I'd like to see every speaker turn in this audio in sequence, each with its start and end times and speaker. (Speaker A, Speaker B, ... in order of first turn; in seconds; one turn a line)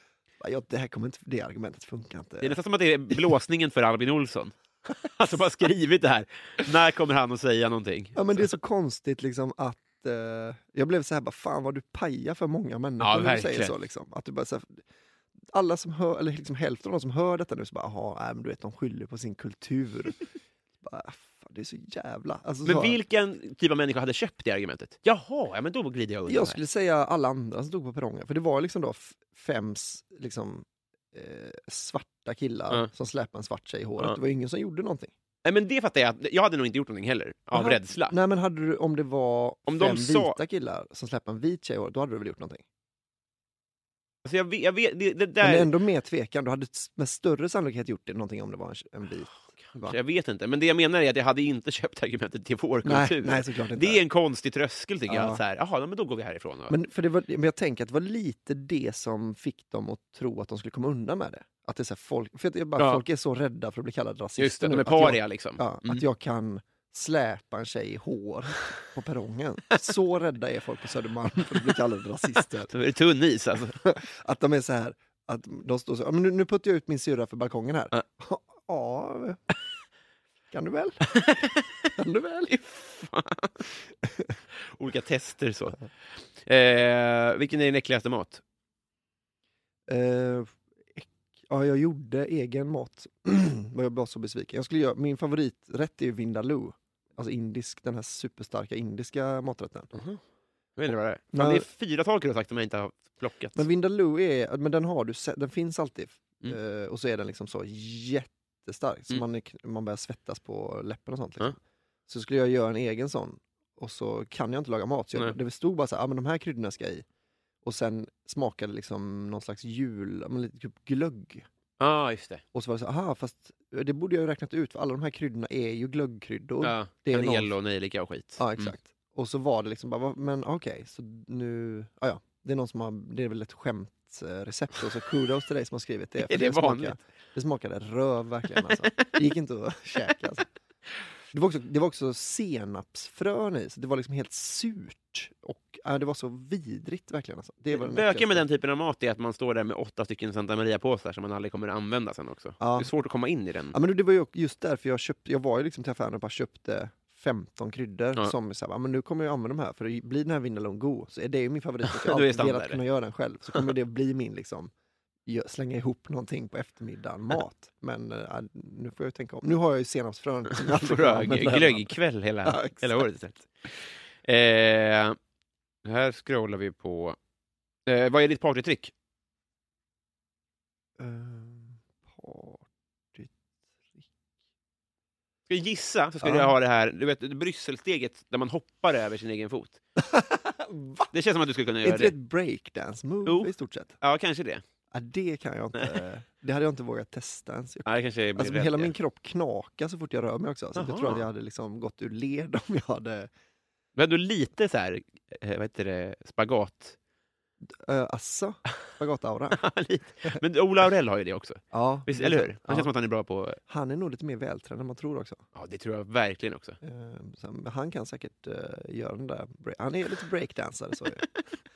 Speaker A: 0.4-2.6
Speaker B: 2.4-8.5
Speaker A: 8.1-14.8
Speaker B: 13.0-13.7
Speaker A: 15.5-20.2
Speaker A: 20.8-23.0
Speaker B: 22.6-26.6
Speaker A: 26.3-35.1
Speaker B: 35.4-38.1
Speaker A: 37.5-42.6
Speaker B: 39.7-40.4
Speaker B: 44.2-45.7
Speaker A: 45.4-50.0
Speaker B: 49.7-56.7
Speaker A: 52.8-54.0
Speaker A: 55.1-55.4
Speaker A: 56.7-72.7
Speaker B: 62.8-63.0
Speaker B: 64.4-66.0
Speaker B: 72.7-73.8
Speaker A: 73.8-79.4
Speaker A: 80.5-81.2
Speaker B: 81.2-81.5
Speaker A: 81.9-82.5
Speaker B: 82.5-83.6
Speaker A: 84.0-84.3
Speaker B: 84.6-85.8
Speaker B: 86.4-88.4
Speaker A: 89.9-99.9
Speaker B: 99.9-100.2
Speaker B: 100.8-103.7
Speaker A: 101.3-101.7
Speaker A: 103.5-117.0
Speaker A: 117.6-121.5
Speaker B: 121.8-122.4
Speaker A: 122.5-127.5
Speaker B: 126.6-128.8
Speaker A: 128.4-140.5
Speaker B: 136.2-136.9
Speaker A: 141.3-148.4
Speaker B: 147.7-153.8
Speaker A: 152.6-152.9
Speaker A: 153.7-164.7
Speaker B: 161.9-162.8
Speaker A: 165.2-173.1
Speaker B: 170.5-173.5
Speaker B: 174.2-175.2
Speaker B: 175.8-177.2
Speaker B: 177.8-178.9
Speaker A: 181.0-183.3
Speaker B: 185.5-189.8
Speaker A: 186.2-186.5
Speaker A: 190.0-191.1
Speaker B: 191.1-192.1
Speaker A: 191.8-193.9
Speaker B: 193.2-194.6
Speaker A: 194.9-203.3
Speaker B: 197.8-198.9
Speaker B: 200.7-201.2
Speaker B: 204.0-206.9
Speaker A: 207.6-209.6
Speaker B: 209.6-213.6
Speaker A: 211.7-212.9
Speaker A: 213.7-215.4
Speaker B: 215.5-216.8
Speaker A: 216.8-221.3